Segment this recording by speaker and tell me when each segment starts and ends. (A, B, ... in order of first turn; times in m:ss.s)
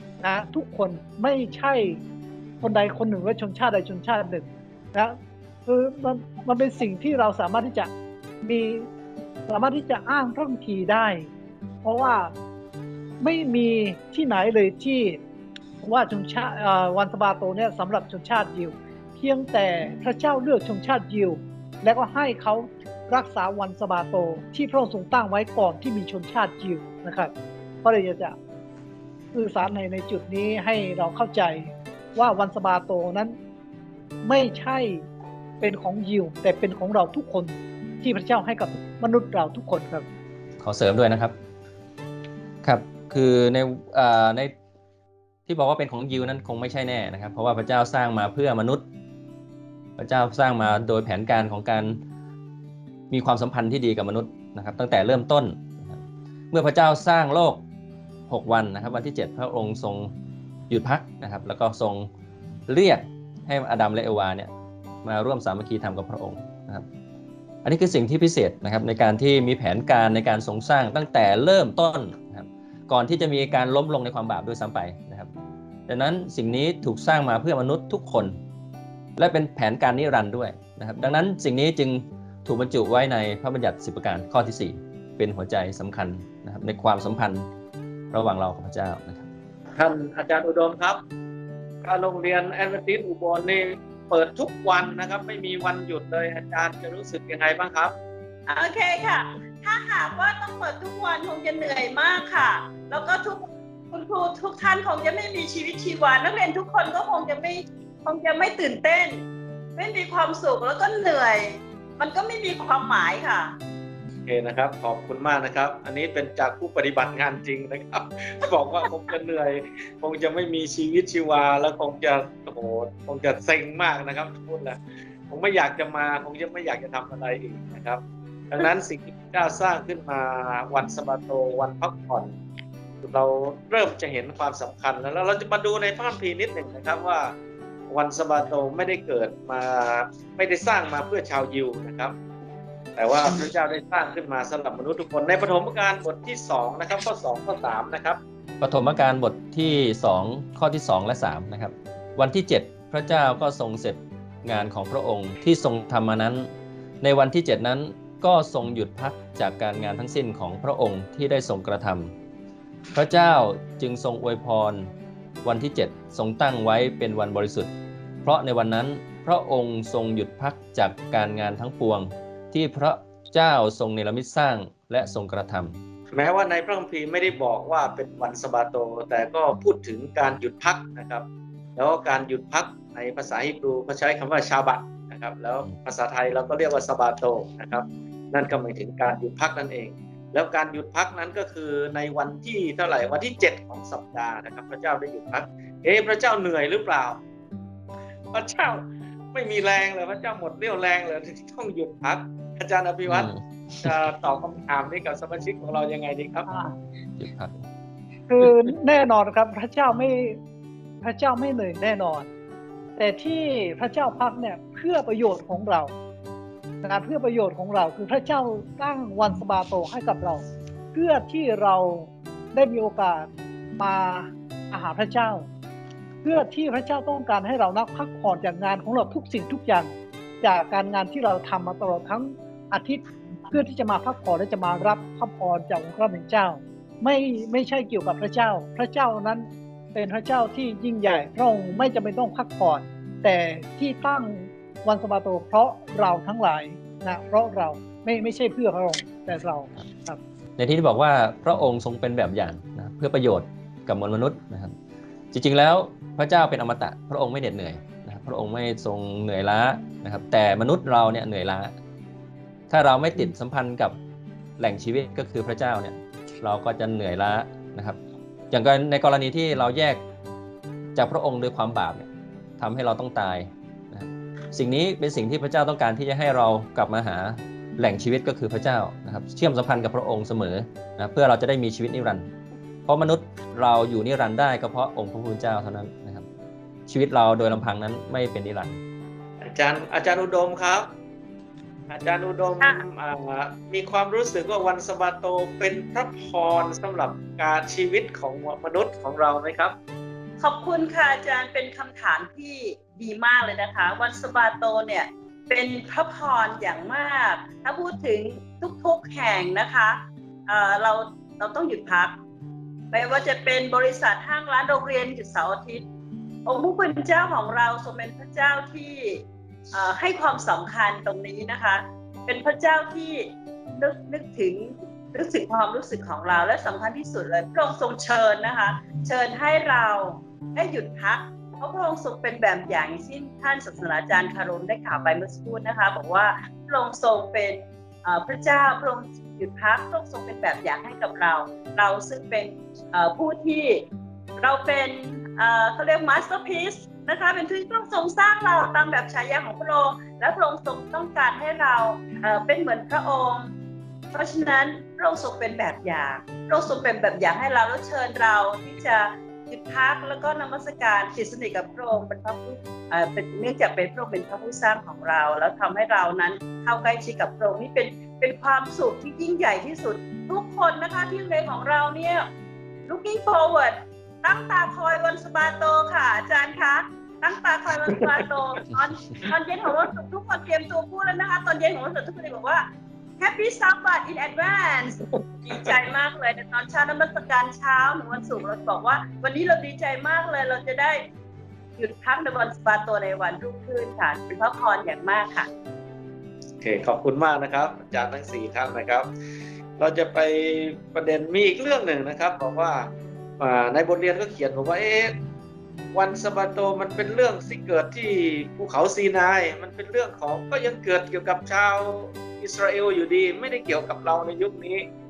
0:00.2-0:02.0 A
0:02.6-0:07.9 A
0:08.4-0:08.9 A
0:09.5-0:11.3 A
0:11.8-0:12.3 A
0:13.2-0:15.2 A
0:15.8-0:27.3 A
0:27.8-0:28.4 A
0:29.3-0:33.4 A
0:34.2-0:35.0 A
0:35.6-0:40.1 A
0:40.6-0:41.4 B
0:42.6-0:44.5 B
0:45.5-0:48.8 B
0:50.0-0:52.0 B
0:53.1-0:57.6 B
0:58.3-1:00.1 B
1:00.7-1:02.1 B
1:02.7-1:04.5 B
1:05.0-1:06.9 B
1:07.6-1:15.3 B
1:15.9-1:18.4 B
1:19.2-1:27.5 B
1:28.1-1:29.3 B
1:29.8-1:31.0 C
1:31.8-1:37.9 C
1:38.5-1:49.2 D
1:49.8-1:53.6 D
1:54.3-2:12.4 C
2:13.0-2:17.3 C
2:17.9-2:22.1 C
2:23.0-2:28.2 C
2:28.6-2:36.5 B
2:37.0-2:42.1 B
2:42.9-2:44.9 B
2:45.4-2:47.7 B
2:48.2-2:55.8 B
2:56.1-3:17.2 C
3:18.3-3:23.3 C
3:23.1-3:23.9 B
3:23.8-3:26.5 C
3:26.5-3:26.8 A
3:27.2-3:27.6 B
3:28.3-3:30.4 A
3:31.0-3:32.3 A
3:33.0-3:35.9 A
3:36.8-3:40.4 A
3:40.9-3:45.5 A
3:46.2-4:10.2 A
4:10.6-4:14.8 B
4:15.3-4:21.8 B
4:22.7-4:24.0 B
4:24.6-4:28.0 B
4:28.5-4:30.0 B
4:31.0-4:42.3 B
4:42.9-4:46.3 B
4:46.9-4:48.8 B
4:49.4-4:50.9 C
4:51.9-4:59.8 C
5:00.4-5:12.2 D
5:12.9-5:15.9 D
5:16.5-5:43.8 D
5:44.4-5:53.5 D
5:54.1-6:12.3 D
6:12.9-6:22.7 D
6:23.2-6:31.0 D
6:31.8-6:35.5 D
6:36.6-6:39.1 C
6:39.8-6:45.2 C
6:45.9-6:54.9 C